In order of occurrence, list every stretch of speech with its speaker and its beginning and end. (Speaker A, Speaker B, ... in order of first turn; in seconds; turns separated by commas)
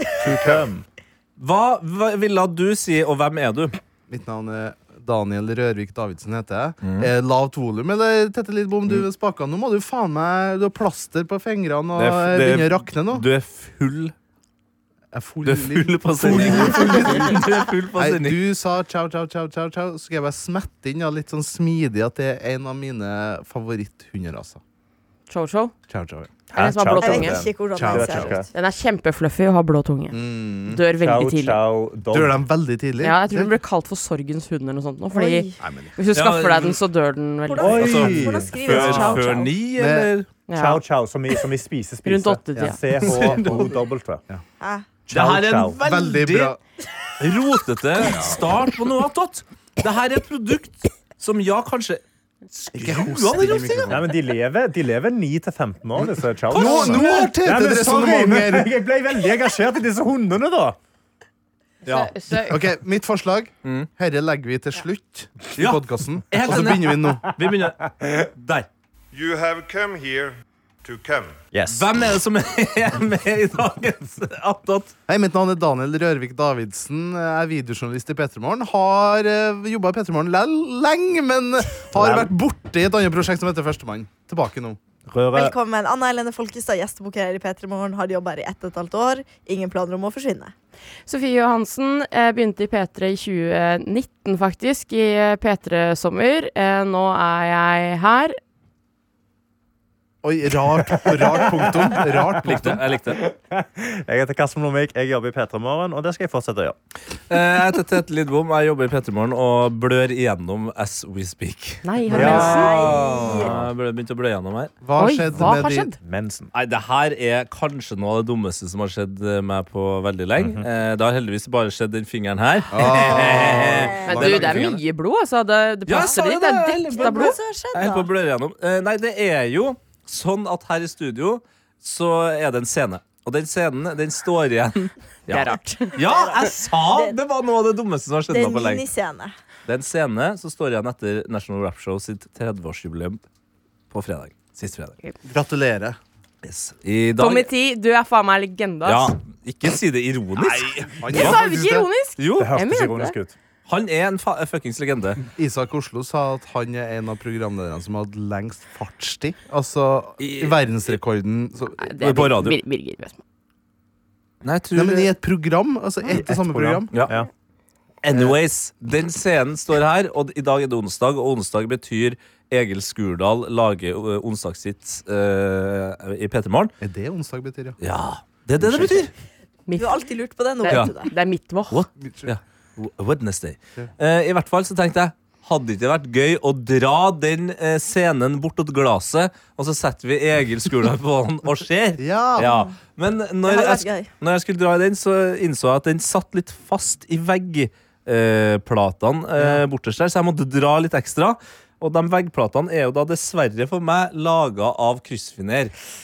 Speaker A: 0.2-0.8, Speaker B: 0.3-0.6, Speaker C: 1.4-3.8, Speaker D: 4.1-13.2, Speaker C: 6.8-7.1, Speaker C: 12.0-14.1, Speaker D: 15.1-24.6, Speaker C: 15.4-18.4, Speaker E: 25.3-25.7, Speaker D: 25.9-26.4, Speaker A: 26.5-28.4, Speaker E: 26.5-27.4, Speaker F: 26.9-28.5, Speaker D: 27.8-28.3, Speaker E: 28.5-31.6, Speaker D: 30.1-30.8, Speaker A: 31.0-32.4, Speaker D: 32.1-33.5, Speaker E: 33.0-37.7, Speaker F: 35.1-35.6, Speaker D: 35.6-36.0, Speaker C: 36.1-36.8, Speaker F: 37.5-39.5, Speaker A: 37.6-39.3, Speaker C: 37.6-40.3, Speaker D: 39.7-40.1, Speaker E: 40.5-40.8, Speaker A: 40.5-44.2, Speaker E: 42.0-42.8, Speaker D: 42.5-43.7, Speaker C: 43.0-43.7, Speaker F: 44.6-44.9, Speaker A: 45.1-45.8, Speaker C: 45.1-46.5, Speaker D: 45.8-46.6, Speaker C: 47.2-53.9, Speaker D: 52.7-54.1, Speaker A: 53.9-60.8, Speaker C: 56.5-57.3, Speaker D: 56.5-58.7, Speaker C: 61.8-62.1, Speaker E: 61.8-62.6, Speaker D: 62.4-67.3, Speaker C: 63.6-63.9, Speaker C: 65.6-68.7, Speaker B: 69.1-71.3, Speaker A: 71.5-71.9, Speaker C: 71.7-74.9, Speaker D: 75.1-84.8, Speaker A: 82.0-82.2, Speaker A: 85.0-85.5, Speaker F: 85.3-90.5, Speaker E: 91.1-98.3, Speaker D: 100.2-102.8, Speaker A: 100.8-101.9, Speaker C: 102.4-103.2, Speaker A: 103.2-106.8, Speaker C: 107.3-114.7, Speaker E: 111.8-112.9, Speaker F: 112.1-113.5, Speaker A: 112.1-113.7, Speaker D: 114.8-115.9, Speaker E: 115.0-116.0, Speaker A: 116.0-116.5, Speaker C: 116.5-124.8, Speaker A: 120.4-120.7, Speaker D: 122.7-124.7, Speaker F: 123.6-124.3, Speaker E: 124.0-127.3, Speaker C: 125.9-138.8, Speaker F: 126.9-128.1, Speaker E: 135.3-136.0, Speaker F: 136.0-137.1, Speaker F: 138.3-139.3, Speaker C: 139.7-143.2, Speaker C: 143.9-144.9, Speaker D: 145.2-146.0, Speaker C: 146.4-147.5, Speaker E: 147.2-149.1, Speaker C: 148.8-151.4, Speaker D: 151.0-151.9, Speaker E: 151.1-153.2, Speaker C: 152.2-152.5, Speaker A: 152.4-153.3, Speaker C: 153.7-155.2, Speaker D: 155.4-161.9, Speaker C: 160.2-161.0, Speaker E: 161.8-163.2, Speaker C: 162.0-162.6, Speaker C: 164.4-165.1, Speaker D: 164.7-166.9, Speaker A: 166.1-167.3, Speaker C: 168.0-176.7, Speaker D: 176.8-177.8, Speaker C: 177.8-179.1, Speaker D: 178.6-179.0, Speaker E: 179.7-180.0, Speaker F: 179.8-181.1, Speaker E: 180.6-181.8, Speaker C: 181.7-205.7, Speaker D: 182.0-182.3, Speaker D: 192.0-192.5, Speaker F: 192.4-192.7, Speaker F: 193.4-194.1